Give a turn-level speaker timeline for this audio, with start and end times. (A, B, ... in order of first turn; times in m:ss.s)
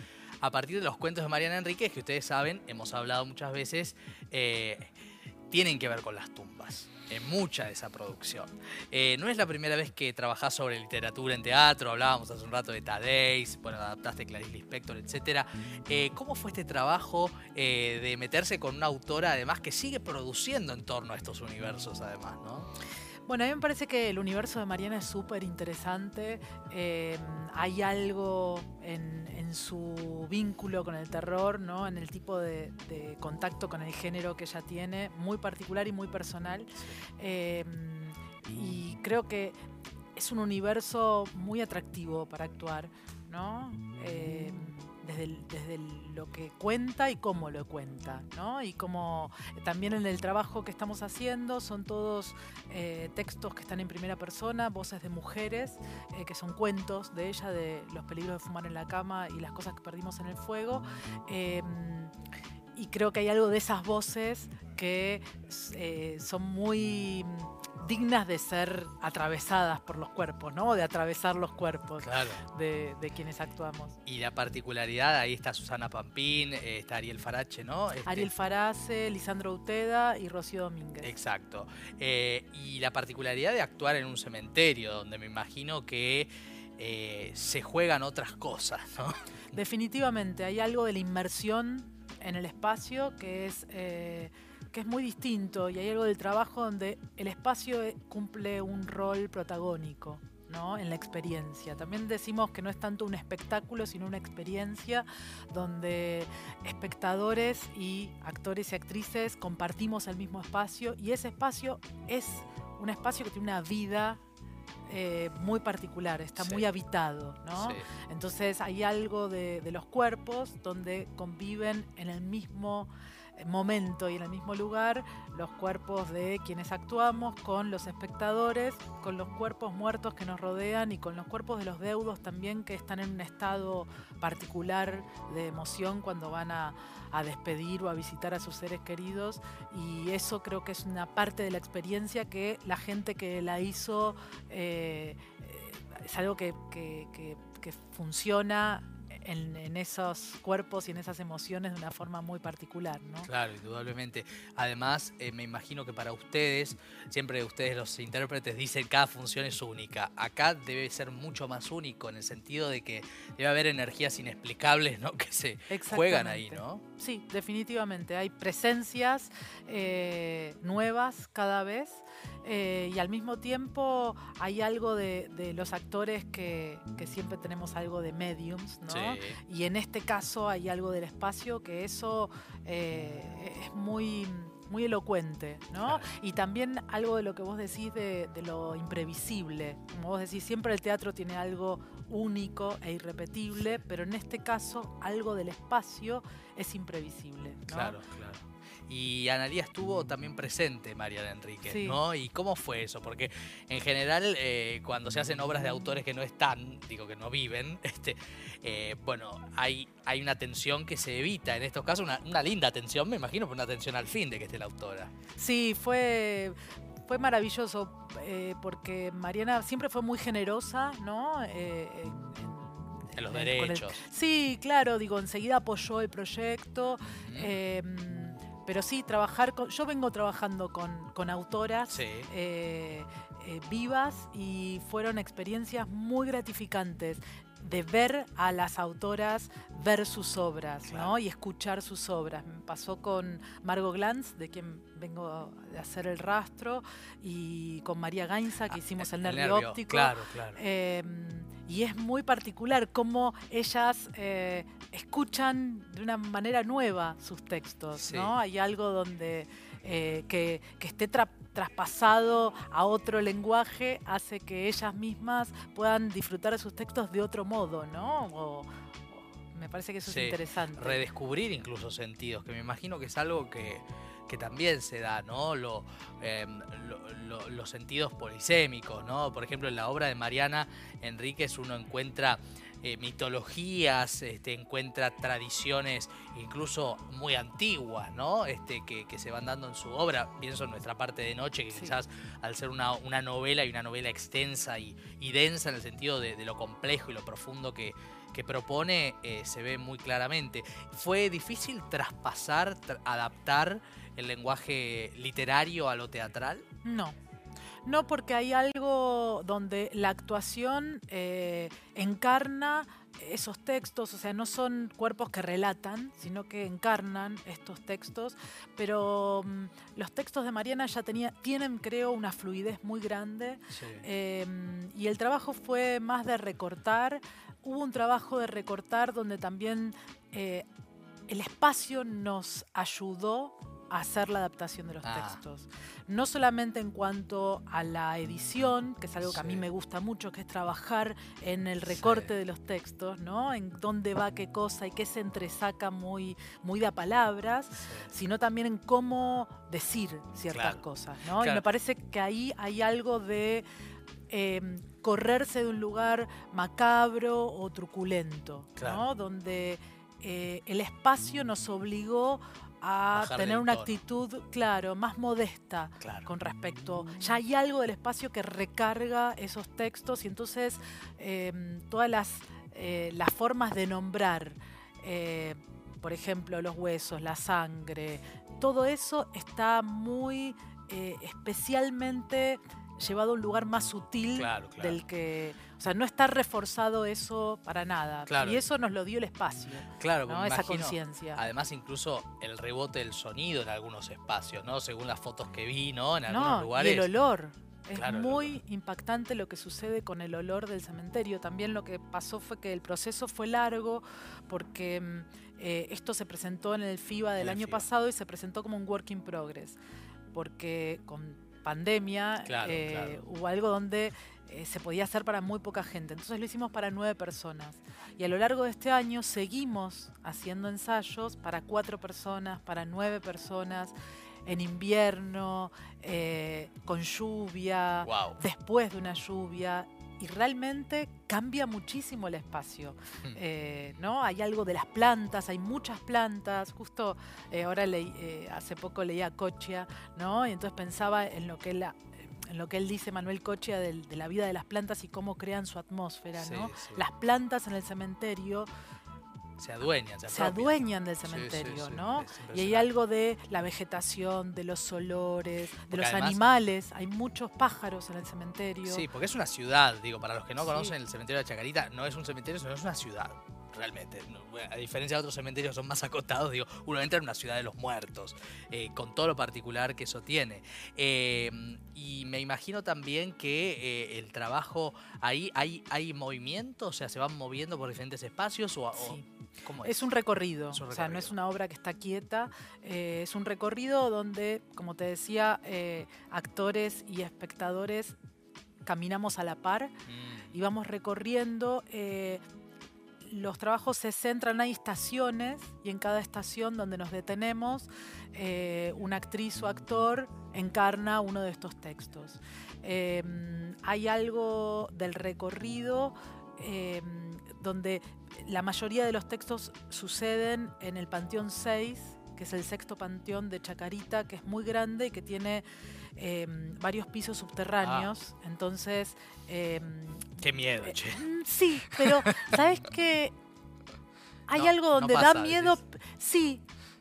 0:00.4-0:04.9 A
0:05.5-0:22.7 A
0:23.3-0:39.6 B
0:40.2-1:02.1 B
1:02.8-1:14.0 B
1:12.0-1:12.4 A
1:14.0-1:18.3 A
1:18.0-1:21.1 B
1:21.0-1:29.5 A
1:29.5-1:54.2 B
1:54.9-2:33.3 B
1:56.4-1:56.6 A
1:57.5-1:57.8 A
2:33.2-2:46.8 A
2:45.7-3:18.0 B
2:58.9-2:59.4 A
3:05.8-3:06.1 A
3:17.7-3:35.1 A
3:21.6-3:22.0 B
3:35.4-4:31.0 B
3:43.1-3:44.0 A
3:47.0-3:47.5 A
3:51.9-3:52.3 A
4:00.8-4:01.1 A
4:08.7-4:10.6 A
4:18.0-4:18.3 A
4:30.0-5:06.6 A
4:51.7-4:52.0 B
5:06.8-5:07.2 B
5:07.8-5:30.6 B
5:23.7-5:24.0 A
5:31.3-5:53.6 B
5:35.0-5:35.4 A
5:39.2-5:39.6 A
5:41.9-5:42.3 A
5:47.8-5:48.1 A
5:50.5-5:50.8 A
5:51.3-5:51.6 A
5:54.3-6:31.4 B
5:58.8-5:59.0 A
6:03.1-6:04.0 A
6:06.0-6:06.3 A
6:24.4-6:25.0 A
6:28.3-6:28.6 A
6:30.0-6:37.1 A
6:36.3-6:49.8 B
6:37.9-6:38.6 A
6:47.4-6:47.8 A
6:50.3-7:03.9 B
6:52.4-6:53.2 A
7:04.4-7:28.7 B
7:08.0-7:08.4 A
7:26.4-7:27.0 A
7:29.6-7:32.9 A
7:30.3-7:39.0 B
7:35.9-7:36.4 A
7:38.8-8:00.1 A
7:40.6-7:40.9 B
7:58.9-7:59.2 B
7:59.8-8:08.2 B
8:00.7-8:01.3 A
8:08.8-8:09.9 B
8:10.1-8:10.5 A
8:10.5-8:12.4 B
8:13.2-8:35.6 B
8:36.2-8:43.3 B
8:37.8-8:38.1 A
8:40.4-8:41.3 A
8:41.9-8:42.5 A
8:44.5-8:46.6 B
8:44.5-8:45.8 A